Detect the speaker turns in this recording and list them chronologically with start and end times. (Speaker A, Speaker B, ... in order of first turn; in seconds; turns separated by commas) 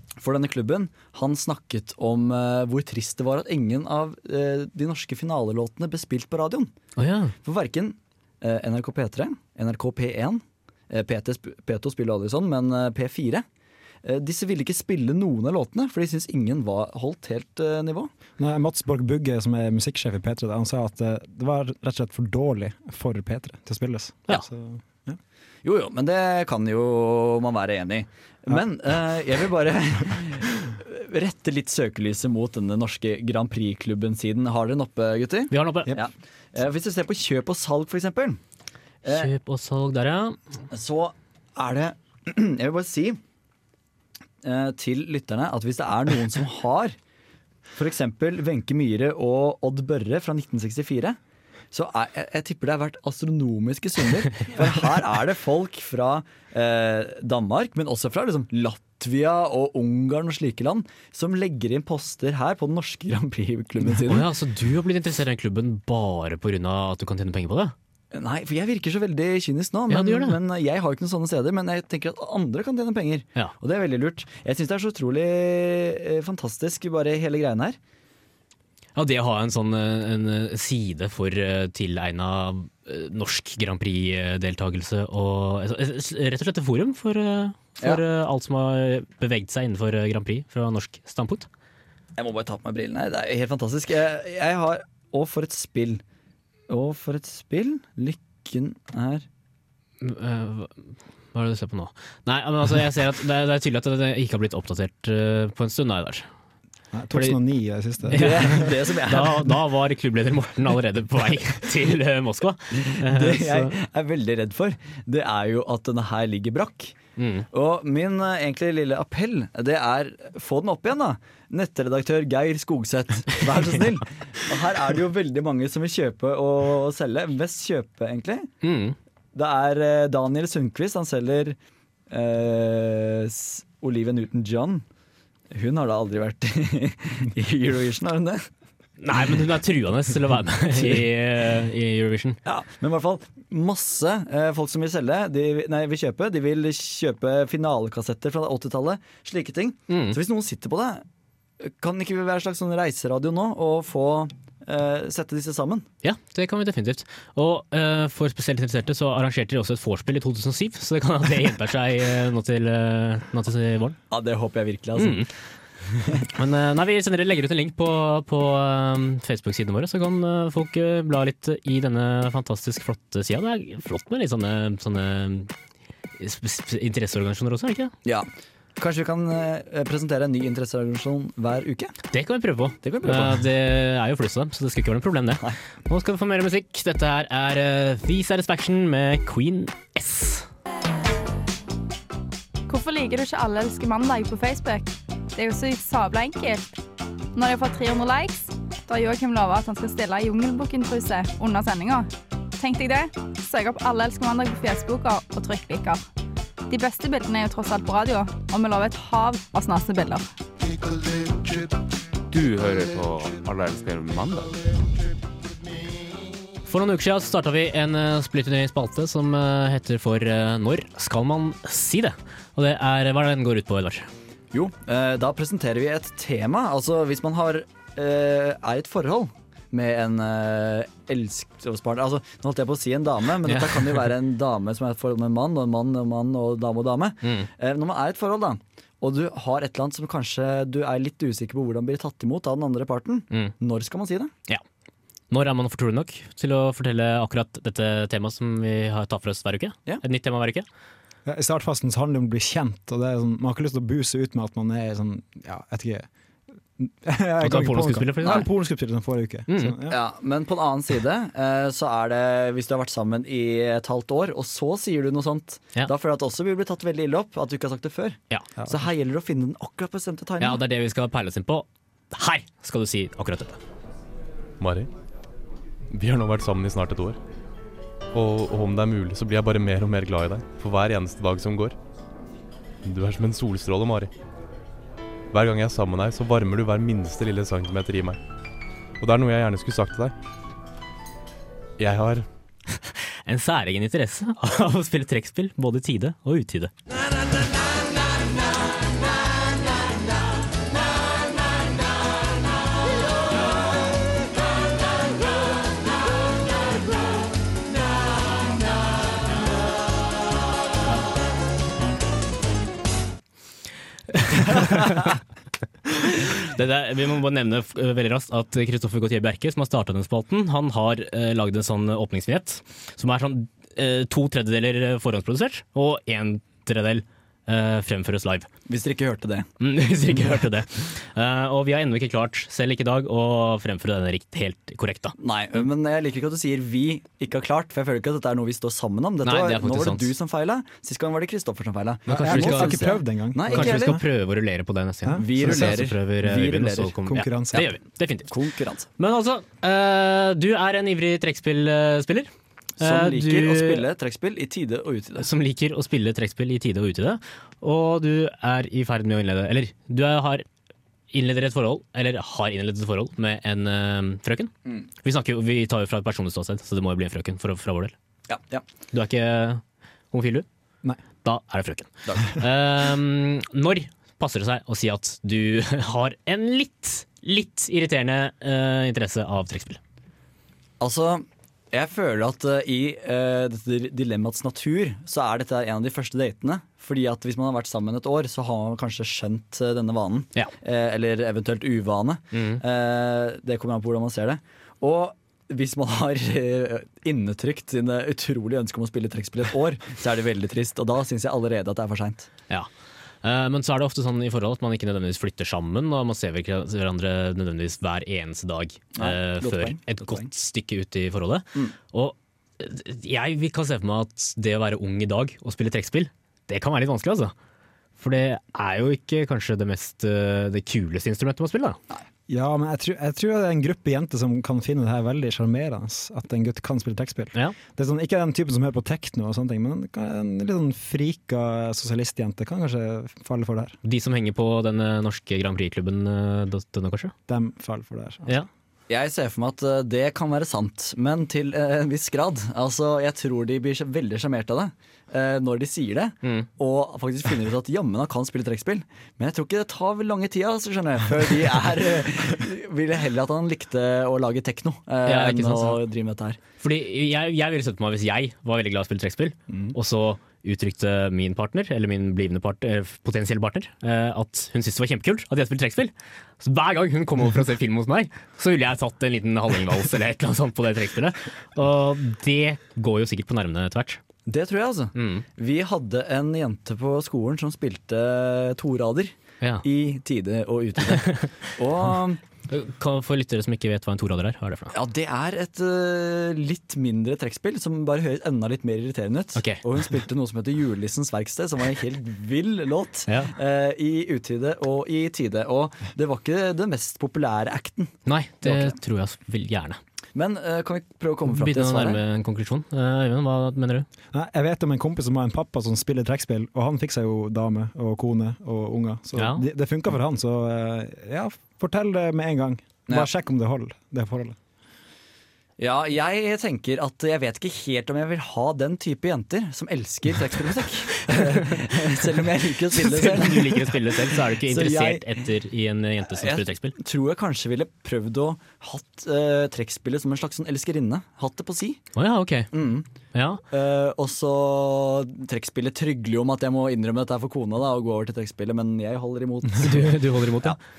Speaker A: 0.2-6.7, Speaker B: 7.0-7.3, Speaker A: 7.4-13.4, Speaker A: 14.0-18.1, Speaker C: 18.4-25.2, Speaker A: 25.6-38.4, Speaker B: 35.5-36.0, Speaker A: 39.0-39.3, Speaker B: 39.1-40.4, Speaker A: 40.7-43.2, Speaker A: 44.4-47.0, Speaker A: 47.8-51.2, Speaker A: 51.7-64.3, Speaker B: 64.0-67.7, Speaker A: 68.1-77.8, Speaker B: 69.9-70.4, Speaker B: 79.0-91.5, Speaker A: 92.2-96.0, Speaker A: 96.7-99.3, Speaker B: 100.0-106.3, Speaker C: 106.9-108.7, Speaker B: 107.1-107.4, Speaker B: 108.1-113.8, Speaker A: 108.1-109.6, Speaker A: 112.8-117.0, Speaker B: 117.2-117.5, Speaker A: 117.5-128.5, Speaker B: 128.6-129.0, Speaker A: 129.3-131.6, Speaker A: 132.1-134.8, Speaker A: 135.5-138.5, Speaker B: 139.0-142.4, Speaker A: 142.4-151.1, Speaker B: 149.9-150.2, Speaker A: 151.6-155.9, Speaker B: 156.0-164.0, Speaker A: 164.1-165.3, Speaker B: 165.0-165.3, Speaker A: 166.0-166.2, Speaker B: 166.3-175.5, Speaker B: 176.2-177.9, Speaker A: 178.1-181.9, Speaker B: 182.1-190.5, Speaker A: 182.8-183.4, Speaker D: 192.7-196.8, Speaker D: 197.3-206.0, Speaker D: 206.7-210.3, Speaker E: 212.3-214.6, Speaker B: 216.7-224.1, Speaker A: 224.5-244.3, Speaker B: 233.5-234.0, Speaker B: 237.2-237.5, Speaker B: 245.3-250.7, Speaker C: 251.3-256.1, Speaker C: 256.8-260.0, Speaker B: 257.4-258.5, Speaker B: 259.5-259.8, Speaker A: 259.9-270.6, Speaker B: 270.4-273.6, Speaker F: 274.6-274.9, Speaker F: 275.9-277.2, Speaker F: 278.1-281.8, Speaker F: 282.9-284.1, Speaker F: 285.3-288.2, Speaker F: 289.0-290.1, Speaker F: 291.8-292.3, Speaker B: 292.8-296.7, Speaker B: 314.1-315.2, Speaker B: 315.9-328.5, Speaker A: 328.7-329.5, Speaker B: 329.6-335.2, Speaker A: 335.2-343.9, Speaker B: 339.2-340.1, Speaker B: 342.1-342.9, Speaker C: 342.1-344.0, Speaker B: 343.5-348.4, Speaker C: 345.1-345.8, Speaker A: 345.2-346.9, Speaker C: 347.1-347.6, Speaker A: 348.3-348.9, Speaker B: 349.0-353.9, Speaker A: 352.8-355.3, Speaker B: 355.2-360.4, Speaker B: 361.1-367.9, Speaker A: 368.3-368.6, Speaker B: 368.9-370.5, Speaker B: 371.2-379.8, Speaker A: 372.1-372.3, Speaker A: 380.8-402.3, Speaker B: 392.3-392.6, Speaker B: 403.2-417.3, Speaker A: 409.0-410.3, Speaker B: 418.0-421.8, Speaker C: 422.3-433.8, Speaker B: 433.8-437.1, Speaker C: 437.3-438.4, Speaker A: 438.9-456.4, Speaker B: 446.2-446.5, Speaker B: 455.1-455.8, Speaker B: 456.6-474.0, Speaker A: 459.5-459.8, Speaker A: 474.3-482.2, Speaker B: 474.9-475.2, Speaker B: 480.9-481.5, Speaker B: 482.5-484.8, Speaker A: 484.7-498.8, Speaker B: 489.4-489.6, Speaker B: 493.1-493.3, Speaker B: 498.1-499.8, Speaker A: 500.1-502.0, Speaker B: 501.3-503.9, Speaker C: 504.1-514.4, Speaker B: 509.2-509.4, Speaker A: 515.6-525.2, Speaker B: 521.1-522.2, Speaker B: 522.7-526.8, Speaker A: 526.1-531.8, Speaker B: 532.0-532.5, Speaker A: 532.5-532.9, Speaker B: 533.1-533.4, Speaker A: 533.5-539.9, Speaker B: 539.6-540.6